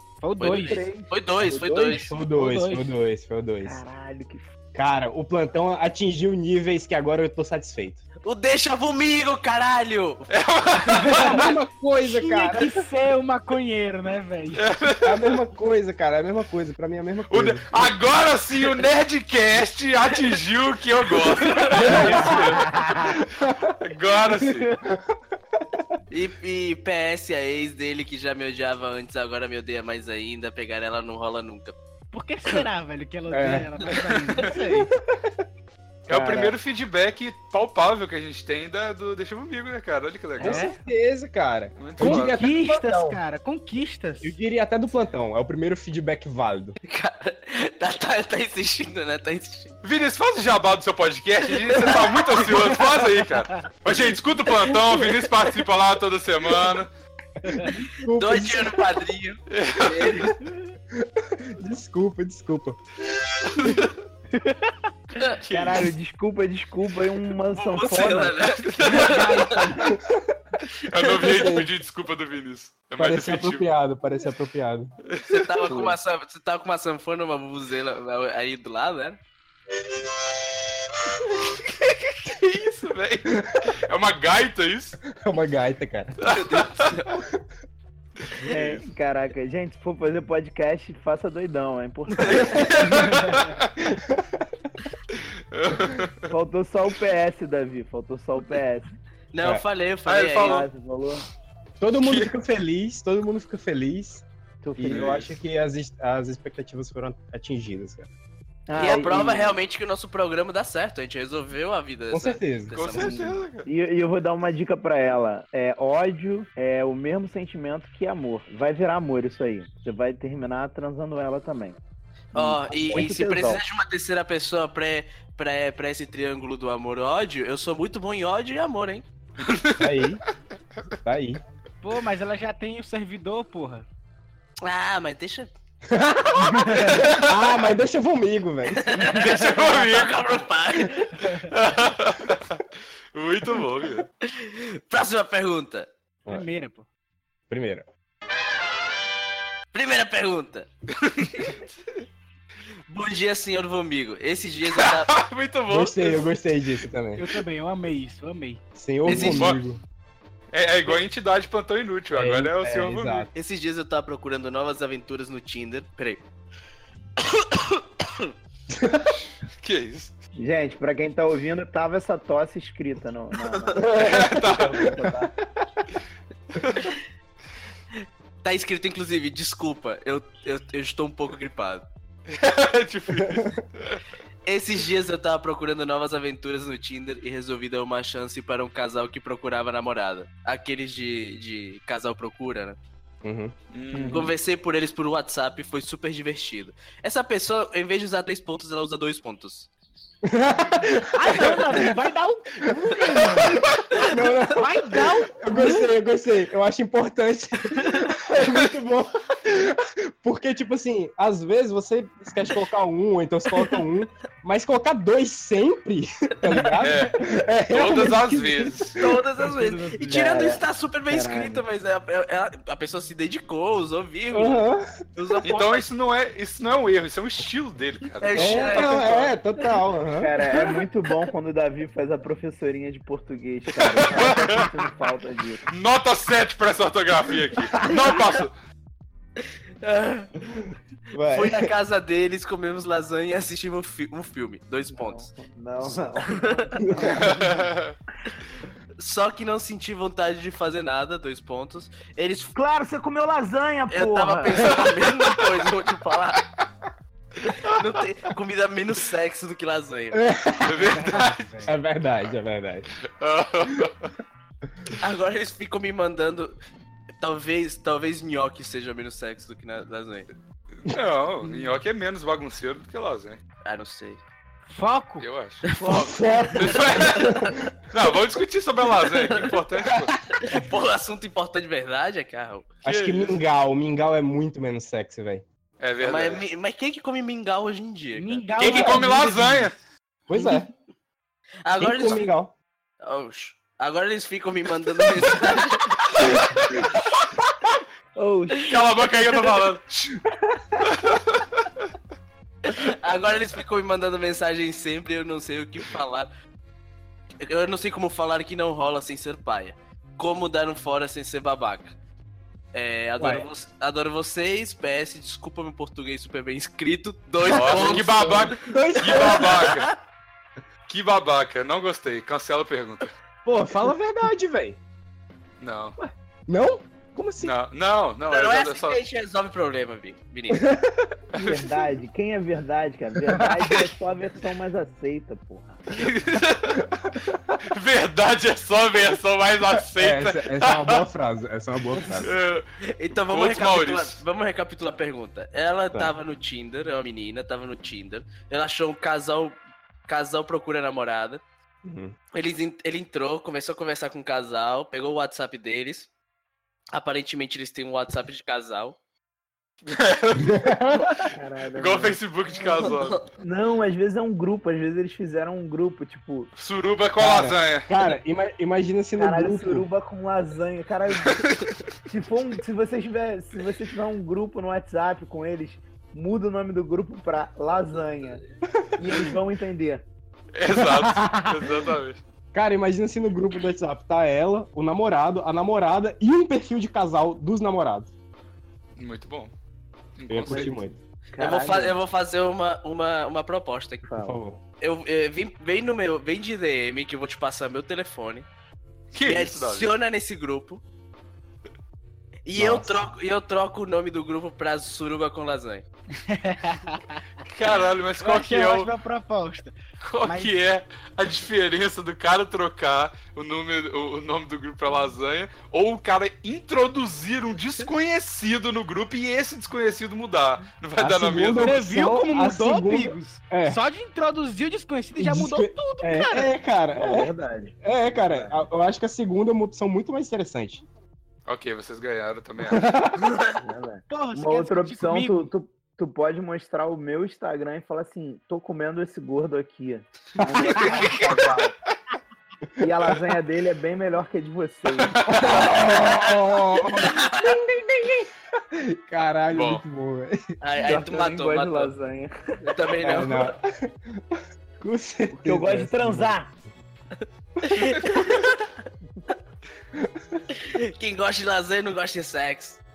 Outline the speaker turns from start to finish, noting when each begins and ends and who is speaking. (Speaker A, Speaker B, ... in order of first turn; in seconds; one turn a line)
Speaker A: 0.2-0.9
Speaker B: 0.4-2.1
Speaker C: 0.5-2.0
Speaker D: 2.1-3.8
Speaker A: 2.2-2.9
Speaker C: 3.6-4.5
Speaker D: 4.7-8.0
Speaker B: 8.2-10.3
Speaker E: 10.3-11.5
Speaker A: 10.8-14.7
Speaker D: 11.1-12.9
Speaker E: 14.6-15.4
Speaker D: 15.0-17.9
Speaker E: 17.3-22.6
Speaker D: 21.7-23.8
Speaker A: 21.7-23.2
Speaker E: 23.8-24.7
Speaker D: 24.8-25.8
Speaker B: 26.1-31.8
Speaker A: 32.1-34.9
Speaker D: 33.3-33.7
Speaker D: 34.5-35.3
Speaker E: 36.1-40.7
Speaker C: 36.1-36.6
Speaker A: 40.4-40.8
Speaker D: 40.4-43.2
Speaker E: 41.8-42.4
Speaker A: 42.0-44.3
Speaker D: 44.2-46.8
Speaker B: 46.8-49.8
Speaker E: 49.8-56.9
Speaker B: 51.6-52.7
Speaker D: 57.4-58.9
Speaker B: 57.6-60.3
Speaker E: 59.5-60.3
Speaker D: 60.9-62.8
Speaker E: 63.4-63.9
Speaker A: 64.3-64.7
Speaker E: 65.4-65.9
Speaker C: 65.5-68.4
Speaker B: 67.5-69.6
Speaker E: 68.7-69.6
Speaker A: 69.0-69.7
Speaker C: 69.1-69.9
Speaker D: 69.8-70.3
Speaker E: 70.8-73.7
Speaker D: 71.2-71.7
Speaker D: 73.0-74.9
Speaker E: 75.0-75.4
Speaker B: 75.3-79.2
Speaker C: 75.7-76.0
Speaker E: 81.7-85.0
Speaker D: 83.3-83.7
Speaker D: 85.1-86.3
Speaker E: 86.2-87.0
Speaker B: 86.3-87.2
Speaker E: 88.4-88.8
Speaker C: 88.5-93.1
Speaker B: 92.2-93.0
Speaker E: 92.4-93.7
Speaker D: 92.5-93.2
Speaker D: 93.8-94.6
Speaker E: 95.5-96.3
Speaker C: 96.3-98.9
Speaker B: 99.3-100.7
Speaker E: 100.1-100.7
Speaker C: 100.4-101.2
Speaker D: 101.8-104.2
Speaker E: 102.0-102.3
Speaker C: 104.6-105.2
Speaker D: 104.8-108.1
Speaker E: 104.8-105.3
Speaker C: 108.7-109.6
Speaker B: 108.8-113.2
Speaker D: 112.1-112.7
Speaker E: 112.7-113.7
Speaker C: 112.9-121.8
Speaker C: 122.3-123.6
Speaker B: 122.3-129.0
Speaker D: 122.4-123.1
Speaker E: 129.4-129.9
Speaker D: 129.7-130.2
Speaker D: 131.0-131.4
Speaker A: 131.8-133.8
Speaker B: 134.6-135.5
Speaker D: 135.9-138.9
Speaker A: 136.5-136.9
Speaker E: 136.6-137.4
Speaker B: 138.8-141.3
Speaker E: 139.0-140.2
Speaker E: 141.5-142.6
Speaker E: 143.1-144.1
Speaker B: 144.2-145.9
Speaker A: 146.3-146.8
Speaker D: 147.5-147.9
Speaker B: 149.7-150.7
Speaker B: 151.2-151.6
Speaker E: 151.2-151.6
Speaker B: 152.9-155.1
Speaker E: 154.8-156.3
Speaker D: 155.7-157.3
Speaker A: 157.2-158.6
Speaker D: 158.8-159.8
Speaker B: 159.1-159.6
Speaker E: 159.1-159.6
Speaker E: 160.5-163.3
Speaker D: 162.1-163.3
Speaker B: 163.3-166.2
Speaker B: 167.2-168.3
Speaker E: 169.6-170.2
Speaker C: 170.4-175.3
Speaker E: 173.9-175.0
Speaker E: 176.6-176.9
Speaker B: 178.4-181.8
Speaker E: 182.3-184.0
Speaker D: 183.2-183.6
Speaker B: 184.4-192.8
Speaker D: 193.2-194.2
Speaker E: 193.7-194.3
Speaker C: 193.9-194.3
Speaker B: 194.1-199.7
Speaker D: 200.2-201.6
Speaker A: 201.0-205.9
Speaker D: 202.7-218.8
Speaker E: 216.8-219.1
Speaker B: 218.9-225.9
Speaker C: 220.0-221.6
Speaker D: 224.3-224.9
Speaker E: 225.4-228.9
Speaker B: 228.2-229.3
Speaker C: 228.3-229.1
Speaker D: 228.3-230.3
Speaker C: 230.2-235.7
Speaker E: 233.9-234.6
Speaker E: 235.7-238.5
Speaker D: 237.6-238.0
Speaker B: 239.4-240.3
Speaker D: 241.1-241.7
Speaker B: 241.3-245.3
Speaker C: 244.9-247.6
Speaker D: 246.8-247.6
Speaker E: 247.1-247.9
Speaker B: 249.0-252.5
Speaker C: 252.5-254.9
Speaker B: 253.9-256.4
Speaker B: 257.4-260.2
Speaker D: 260.1-262.9
Speaker E: 260.6-261.8
Speaker E: 263.2-264.1
Speaker B: 265.0-266.6
Speaker B: 267.2-270.3
Speaker E: 270.8-273.4
Speaker B: 273.6-274.2
Speaker A: 274.7-275.2
Speaker E: 275.2-275.6
Speaker B: 275.6-277.3
Speaker D: 275.8-277.7
Speaker E: 276.5-277.4
Speaker E: 277.9-280.1
Speaker B: 279.1-279.5
Speaker B: 280.4-282.7
Speaker D: 282.8-285.4
Speaker E: 282.9-283.4
Speaker E: 285.8-286.4
Speaker B: 286.0-288.9
Speaker A: 288.1-289.7
Speaker E: 288.6-289.8
Speaker D: 290.3-290.7
Speaker B: 291.6-292.3
Speaker D: 291.8-292.5
Speaker B: 293.0-296.2
Speaker E: 296.2-296.9
Speaker C: 298.1-298.9
Speaker E: 298.6-300.2
Speaker E: 300.8-301.7
Speaker B: 302.6-306.3
Speaker B: 307.4-311.9
Speaker B: 312.7-319.9
Speaker D: 313.2-313.5
Speaker E: 317.4-319.9
Speaker D: 317.5-319.8
Speaker E: 320.9-323.1
Speaker D: 323.5-324.8
Speaker E: 325.6-326.0
Speaker D: 326.5-327.5
Speaker E: 327.4-329.0
Speaker B: 328.3-330.7
Speaker D: 330.5-331.1
Speaker E: 331.3-331.7
Speaker C: 331.4-335.8
Speaker D: 333.3-333.5
Speaker E: 335.9-341.0
Speaker D: 339.8-342.3
Speaker E: 342.0-344.2
Speaker B: 342.8-351.4
Speaker D: 351.8-352.1
Speaker B: 352.3-356.1
Speaker B: 356.9-359.0
Speaker E: 359.9-361.2
Speaker D: 360.4-361.1
Speaker C: 361.3-362.2
Speaker E: 361.7-363.2
Speaker B: 362.6-363.2
Speaker C: 363.4-366.5
Speaker E: 366.6-367.9
Speaker D: 367.2-369.9
Speaker C: 369.2-378.4
Speaker E: 371.2-371.6
Speaker D: 378.7-379.3
Speaker C: 379.0-380.0
Speaker E: 380.5-382.2
Speaker D: 380.7-381.9
Speaker D: 382.5-388.1
Speaker E: 389.0-389.5
Speaker E: 390.1-390.8
Speaker D: 390.3-391.0
Speaker C: 390.4-390.8
Speaker C: 391.3-392.0
Speaker B: 391.4-394.0
Speaker C: 394.1-394.4
Speaker D: 394.1-394.6
Speaker B: 394.8-398.5
Speaker E: 399.1-399.9
Speaker B: 399.2-400.8
Speaker B: 402.5-405.9
Speaker D: 402.6-403.0
Speaker A: 406.3-407.2
Speaker E: 407.5-408.9
Speaker A: 408.2-410.5
Speaker E: 410.0-421.8
Speaker D: 421.0-423.8
Speaker A: 421.6-426.5
Speaker D: 425.2-427.3
Speaker C: 426.9-428.6
Speaker D: 427.8-430.8
Speaker E: 431.5-433.0
Speaker D: 432.6-433.2
Speaker B: 433.2-433.6
Speaker C: 433.6-441.7
Speaker A: 434.1-435.5
Speaker D: 440.4-441.1
Speaker B: 440.6-441.5
Speaker C: 442.8-445.8
Speaker D: 442.8-443.1
Speaker E: 445.0-445.7
Speaker D: 445.3-450.5
Speaker B: 447.1-447.5
Speaker E: 449.5-449.8
Speaker B: 450.6-451.9
Speaker C: 450.8-452.9
Speaker B: 452.6-453.6
Speaker D: 453.0-456.3
Speaker C: 455.4-456.5
Speaker B: 457.6-458.7
Speaker D: 459.9-460.4
Speaker B: 460.5-462.8